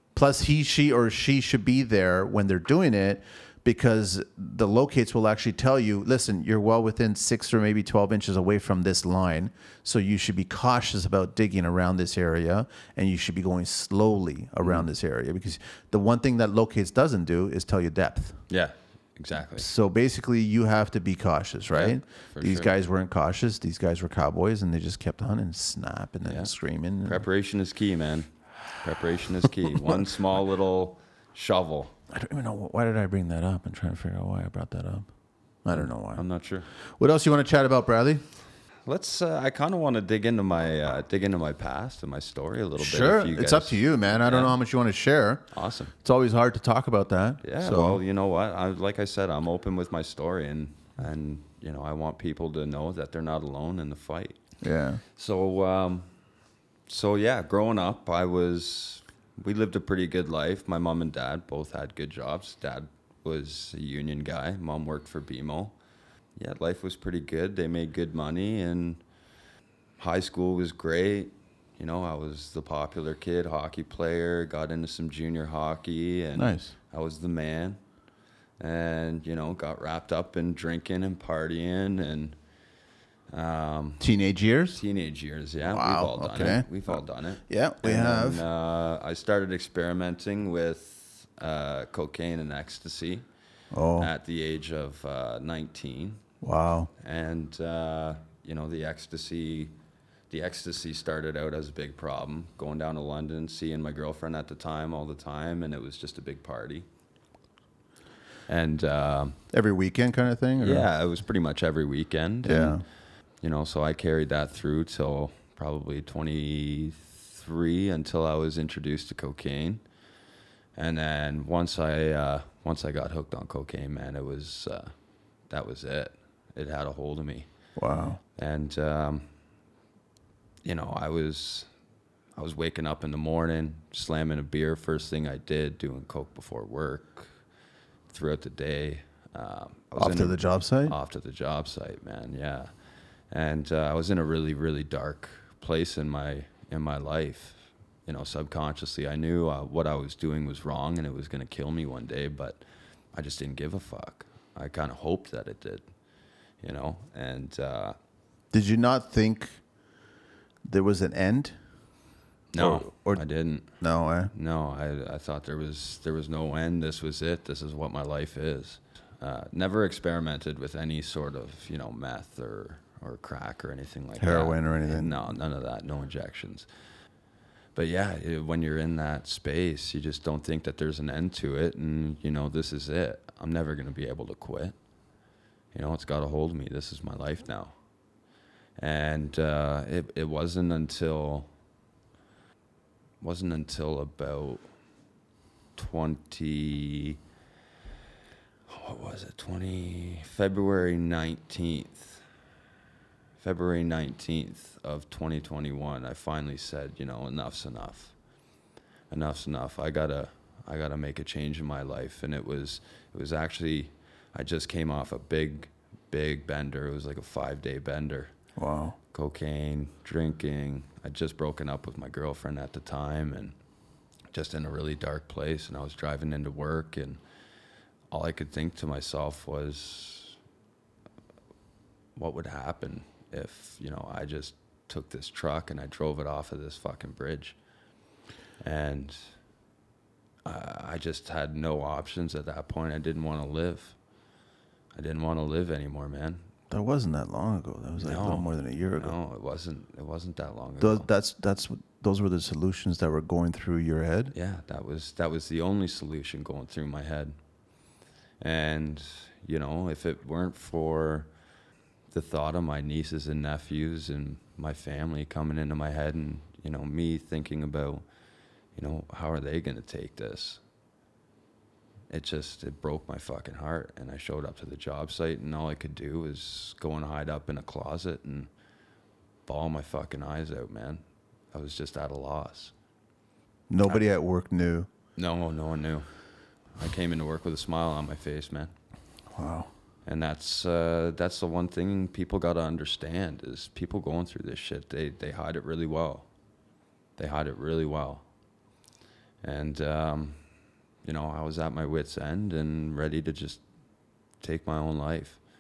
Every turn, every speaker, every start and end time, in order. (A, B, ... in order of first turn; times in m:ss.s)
0:00.2-0:18.4 A
0:18.5-0:19.7 B
0:19.6-0:27.2 A
0:21.7-0:22.7 B
0:26.3-0:26.5 B
0:27.0-0:31.9 B
0:32.1-0:35.1 A
0:35.6-0:36.2 A
0:35.7-0:36.7 B
0:37.0-0:38.2 A
0:38.9-0:44.6 B
0:42.8-0:45.5 A
0:45.5-0:45.9 B
0:46.0-0:48.0 A
0:47.4-0:54.4 B
0:54.6-0:55.0 A
0:55.1-0:56.1 B
0:56.9-1:05.8 B
1:06.4-1:09.0 B
1:10.0-1:17.8 B
1:16.4-1:16.7 A
1:18.6-1:22.4 B
1:23.3-1:24.1 B
1:24.0-1:24.8 A
1:24.7-1:33.3 B
1:25.7-1:27.0 A
1:27.5-1:28.4 A
1:33.7-1:34.1 A
1:34.0-1:36.2 B
1:36.4-1:36.9 A
1:37.0-1:39.7 B
1:40.3-1:46.9 B
1:48.5-1:49.4 B
1:49.5-1:50.9 A
1:50.6-1:52.8 B
1:52.4-1:52.8 A
1:53.4-1:59.8 B
2:00.8-2:04.9 B
2:05.5-2:07.5 B
2:07.8-2:08.2 A
2:08.4-2:09.3 B
2:10.6-2:11.7 B
2:12.4-2:17.3 B
2:18.1-2:22.7 B
2:20.0-2:21.0 A
2:23.3-2:32.6 B
2:33.1-2:35.9 B
2:36.6-2:38.0 B
2:38.5-2:39.6 A
2:40.7-2:41.6 A
2:42.5-2:43.7 B
2:42.6-2:43.2 A
2:43.8-2:44.3 A
2:44.3-2:56.7 B
2:54.2-2:55.2 A
2:57.8-3:04.8 B
3:05.7-3:07.8 B
3:08.8-3:11.5 B
3:13.2-3:14.6 B
3:15.8-3:17.2 B
3:18.7-3:22.2 B
3:23.4-3:28.1 B
3:29.1-3:38.3 B
3:38.6-3:39.0 A
3:39.1-3:43.6 B
3:44.3-3:47.2 B
3:48.1-3:50.4 B
3:52.2-3:57.6 B
3:58.6-3:59.3 B
4:00.4-4:04.0 B
4:05.0-4:06.5 B
4:06.7-4:09.2 A
4:08.0-4:11.1 B
4:10.8-4:14.3 A
4:14.3-4:17.3 B
4:18.4-4:21.3 B
4:22.1-4:28.0 B
4:28.8-4:30.6 B
4:32.1-4:38.5 B
4:39.5-4:42.7 B
4:43.7-4:44.9 A
4:45.2-4:46.1 B
4:46.8-4:48.7 B
4:49.3-4:49.7 A
4:50.1-4:56.3 B
4:57.2-4:58.2 B
4:59.4-5:00.4 B
5:01.0-5:03.6 B
5:04.4-5:05.4 B